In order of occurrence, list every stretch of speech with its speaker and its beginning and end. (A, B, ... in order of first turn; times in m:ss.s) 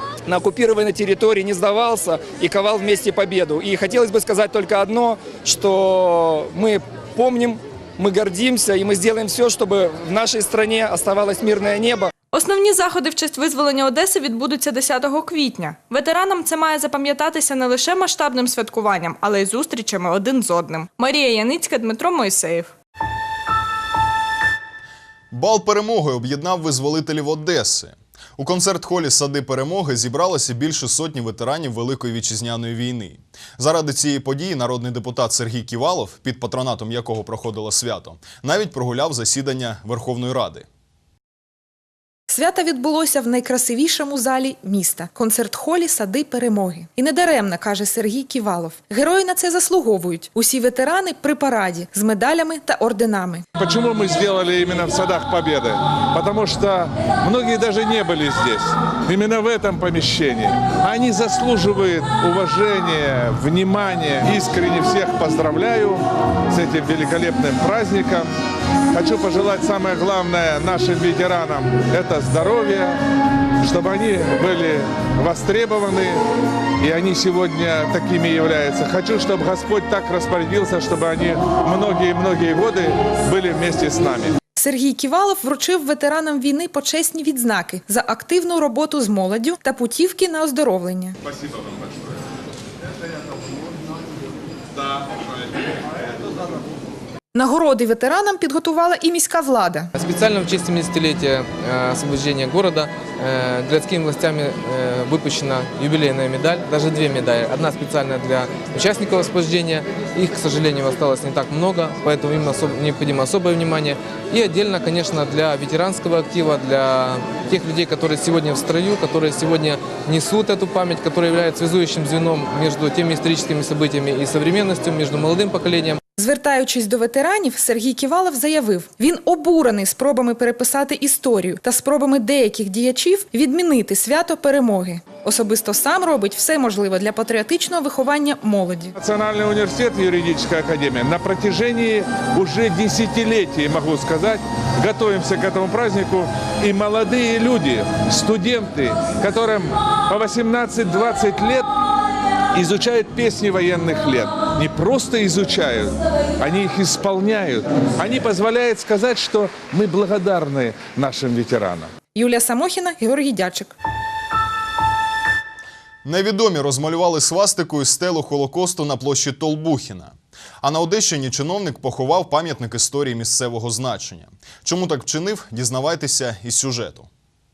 0:00.3-0:12.1 A
0:12.3-0:22.7 B
0:25.3-0:40.6 C
0:42.3-0:53.4 D
0:53.6-1:08.3 E
1:08.9-1:13.0 E
1:13.6-1:16.2 E
1:16.8-1:24.3 E
1:24.6-1:31.2 D
1:37.3-1:39.9 D
1:40.0-2:06.0 F
2:06.2-2:19.0 D
2:19.0-2:31.7 E
2:32.5-2:41.9 E
2:42.2-2:43.7 D
2:46.0-2:57.1 C